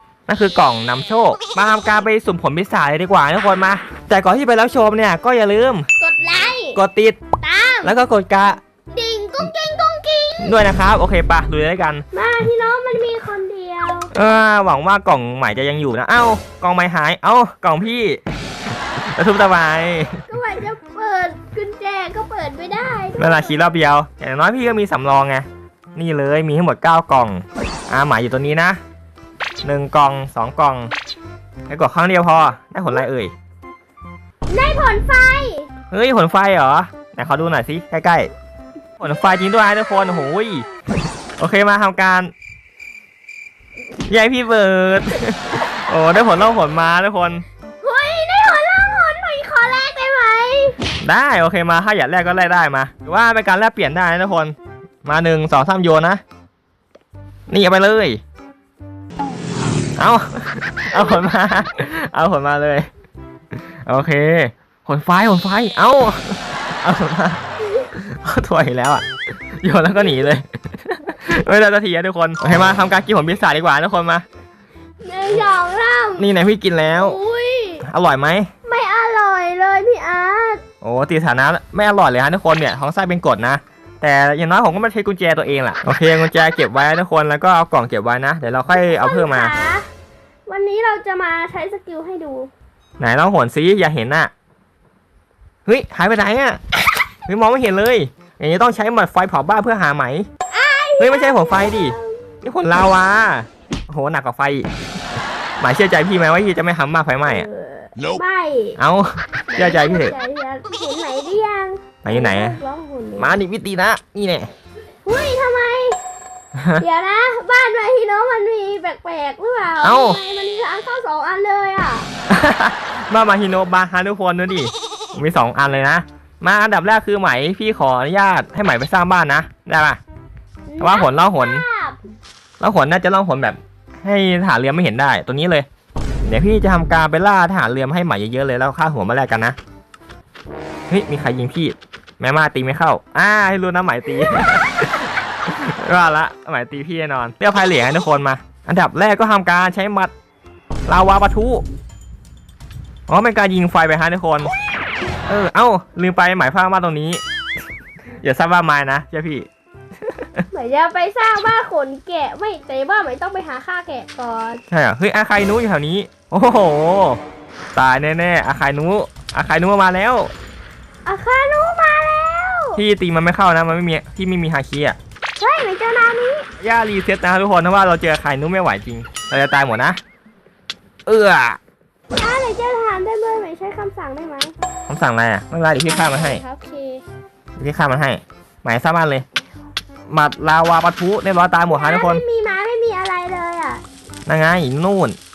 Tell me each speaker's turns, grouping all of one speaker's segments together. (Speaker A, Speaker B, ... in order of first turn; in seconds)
Speaker A: 0.3-5.9, 6.8-7.2, 7.8-8.6, 10.4-12.0, 14.1-18.2, 19.0-20.2, 23.2-28.8, 29.6-30.9, 31.7-33.3, 35.9-38.3, 39.0-40.7, 41.4-42.3, 44.1-47.5, 51.0-56.2, 57.5-58.2, 60.0-62.9, 63.9-74.2, 76.2-77.2, 77.8-78.5, 80.8-89.5, 93.0-94.3, 95.7-96.6, 97.2-100.3, 101.0-104.7, 105.6-107.5, 108.8-110.2, 112.0-112.6, 113.2-114.5, 116.5-116.8, 119.8-120.2, 122.3-130.0, 130.8-131.6, 132.6-135.7, 136.2-139.6, 140.9-150.1, 150.9-151.7, 153.1-154.5, 155.3-157.2, 158.2-159.5, 160.1-160.4, 164.7-167.2, 167.8-170.3, 172.8-175.0, 176.6-180.0, 181.1-181.6, 184.9-186.4, 187.6-189.3, 190.1-192.2, 194.3-195.2
Speaker B: 6.0-6.8, 7.4-7.9, 8.9-10.6, 12.1-14.1, 20.3-23.8, 34.5-35.7, 47.8-50.8, 67.6-67.9, 75.0-76.3, 76.9-77.9, 78.6-80.6, 88.7-89.9, 90.5-92.5, 100.5-102.3, 107.2-108.8, 109.5-113.4, 115.0-116.0, 116.8-122.1, 130.7-132.0, 160.5-164.6, 171.1-172.8, 175.4-176.5, 182.2-184.5, 185.8-187.0, 191.7-193.8